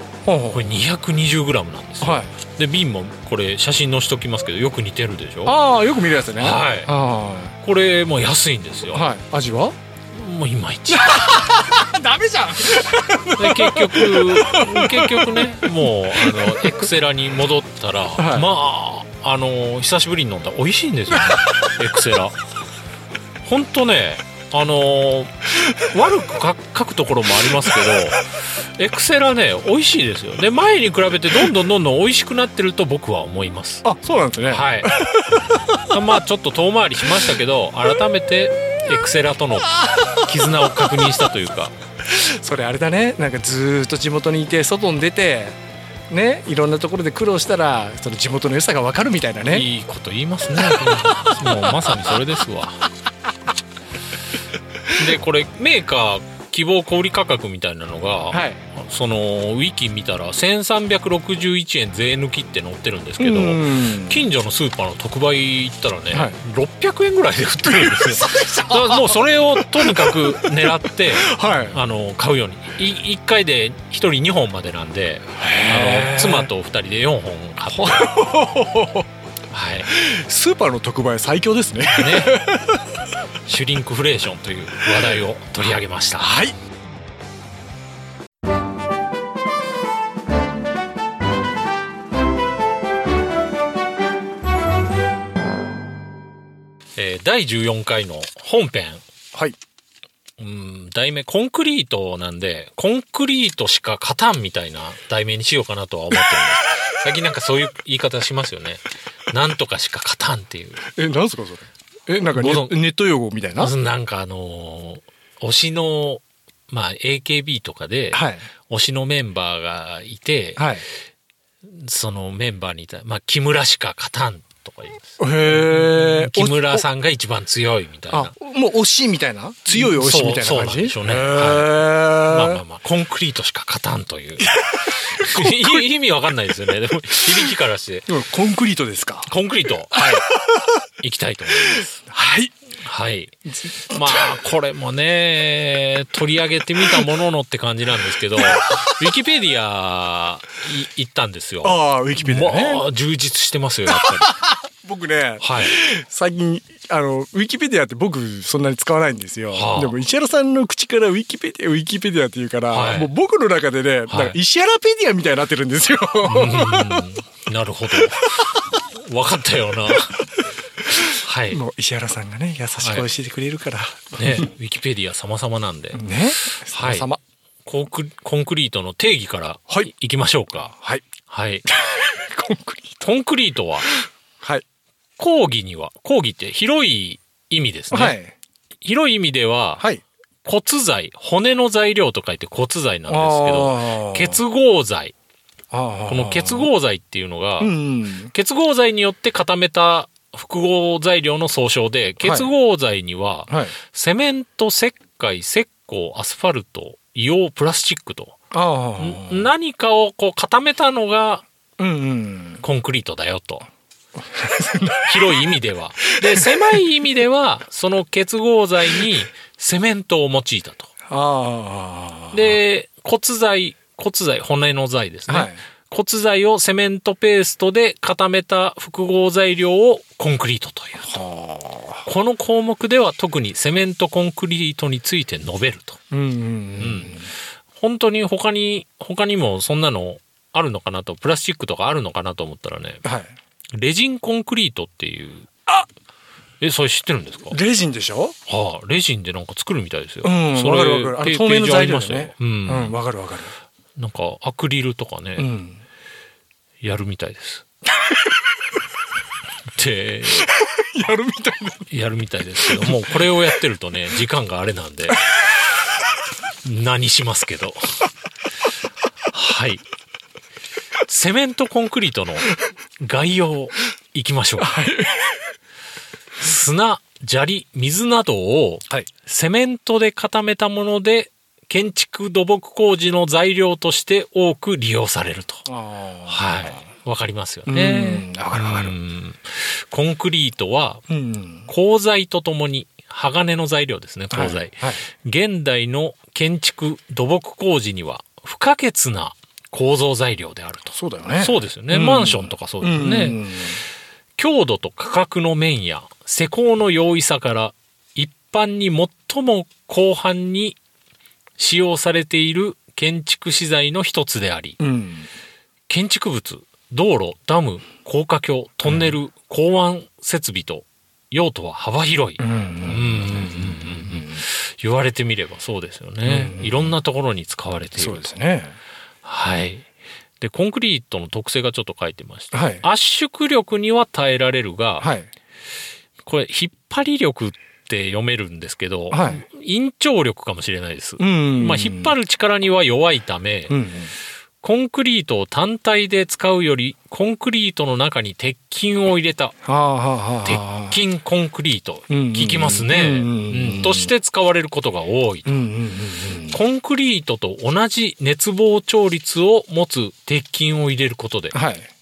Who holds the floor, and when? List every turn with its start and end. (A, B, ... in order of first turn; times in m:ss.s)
0:00.2-0:00.6 A
0:00.5-0:05.6 B
0:02.0-0:02.3 A
0:05.4-0:07.6 A
0:06.4-0:06.9 B
0:07.6-0:09.0 B
0:08.9-0:09.8 A
0:10.1-0:11.4 B
0:10.9-0:16.9 A
0:13.4-0:22.4 B
0:18.2-0:18.5 A
0:21.1-0:21.8 A
0:23.4-0:33.8 B
0:27.4-0:28.0 A
0:33.8-0:36.0 A
0:34.5-0:35.0 B
0:35.9-0:41.8 B
0:42.0-0:45.6 A
0:46.1-0:49.7 A
0:49.5-0:52.9 B
0:50.6-0:52.2 A
0:54.9-1:18.2 B
0:58.3-0:58.6 A
1:03.2-1:04.2 A
1:06.1-1:06.4 A
1:07.6-1:10.5 A
1:11.1-1:11.8 A
1:15.4-1:16.5 A
1:17.7-1:19.1 A
1:19.5-1:19.9 B
1:19.9-1:23.0 A
1:21.9-1:22.5 B
1:23.5-1:26.3 B
1:26.2-1:26.6 A
1:37.0-1:39.0 B
1:40.4-1:50.9 B
1:50.8-1:53.7 A
1:52.3-1:52.8 B
1:53.6-2:00.8 B
1:58.1-1:58.5 A
2:00.6-2:00.9 A
2:01.6-2:08.3 B
2:05.2-2:06.9 A
2:08.1-2:12.6 A
2:09.7-2:18.1 B
2:14.4-2:15.8 A
2:17.3-2:17.5 A
2:18.1-2:19.3 A
2:19.3-2:20.3 B
2:19.9-2:20.9 A
2:21.0-2:22.0 B
2:21.5-2:22.5 A
2:22.8-2:34.4 B
2:23.5-2:24.4 A
2:28.4-2:28.9 A
2:31.6-2:32.8 A
2:33.9-2:47.1 A
2:35.4-2:35.8 B
2:39.5-2:40.0 B
2:42.7-2:43.1 B
2:44.1-2:44.4 B
2:46.2-2:50.3 B
2:47.9-2:48.5 A
2:50.8-2:54.5 A
2:51.0-2:51.6 B
2:52.8-2:53.1 B
2:54.1-2:57.1 B
2:55.9-2:57.2 A
2:57.6-3:00.8 B
3:00.8-3:01.0 A
3:01.3-3:01.7 B
3:01.7-3:03.1 A
3:03.0-3:03.9 B
3:03.9-3:04.6 A
3:05.2-3:08.2 B
3:07.9-3:08.4 A
3:08.8-3:09.8 B
3:10.4-3:15.2 B
3:13.1-3:14.4 A
3:15.7-3:16.7 A
3:16.1-3:17.7 B
3:17.6-3:18.3 A
3:18.3-3:28.4 B
3:22.2-3:22.5 A
3:23.5-3:23.8 A
3:28.5-3:29.5 A
3:29.0-3:31.4 B
3:31.8-3:32.6 A
3:32.6-3:33.7 B
3:34.2-3:35.6 A
3:35.0-3:40.9 B
3:36.2-3:36.8 A
3:41.1-3:42.6 A
3:42.3-3:51.1 B
3:45.3-3:45.6 A
3:51.1-3:52.1 A
3:52.0-3:56.0 B
3:56.1-3:57.3 A
3:56.8-3:57.2 B
3:57.8-4:03.0 B
4:03.0-4:03.3 A
4:03.8-4:05.5 B
4:06.6-4:07.6 B
4:07.5-4:08.4 A
4:08.5-4:13.0 B
4:10.2-4:13.5 A
4:14.0-4:15.5 B
4:15.4-4:15.8 A
4:16.8-4:17.6 B
4:17.9-4:18.6 A
4:19.7-4:20.5 B
4:20.3-4:21.9 A
4:21.9-4:25.4 B
4:22.6-4:23.3 A
4:26.6-4:28.0 B
4:29.3-4:29.8 B
4:31.0-4:34.8 B
4:34.6-4:35.5 A
4:36.4-4:45.7 B
4:45.7-4:46.8 A
4:46.3-4:51.0 B
4:47.7-4:48.9 A
4:51.1-4:51.7 A
4:51.7-5:03.4 B
4:54.3-4:55.0 A
5:01.0-5:03.8 A
5:04.4-5:10.8 B
5:11.6-5:14.8 B
5:14.8-5:15.3 A
5:15.9-5:28.3 B
5:22.4-5:24.4 A
5:26.2-5:26.9 A
5:28.0-5:28.8 A
5:29.2-5:29.9 B
5:30.4-5:35.1 B
5:32.5-5:32.8 A
5:35.0-5:35.3 A
5:36.2-5:43.8 B
5:39.1-5:39.4 A
5:41.2-5:42.1 A
5:43.7-5:44.1 A
5:44.6-5:49.6 B
5:49.6-5:51.0 A
5:50.4-5:55.6 B
5:52.1-5:54.1 A
5:55.5-5:56.6 A
5:56.5-6:01.6 B
6:01.5-6:01.9 A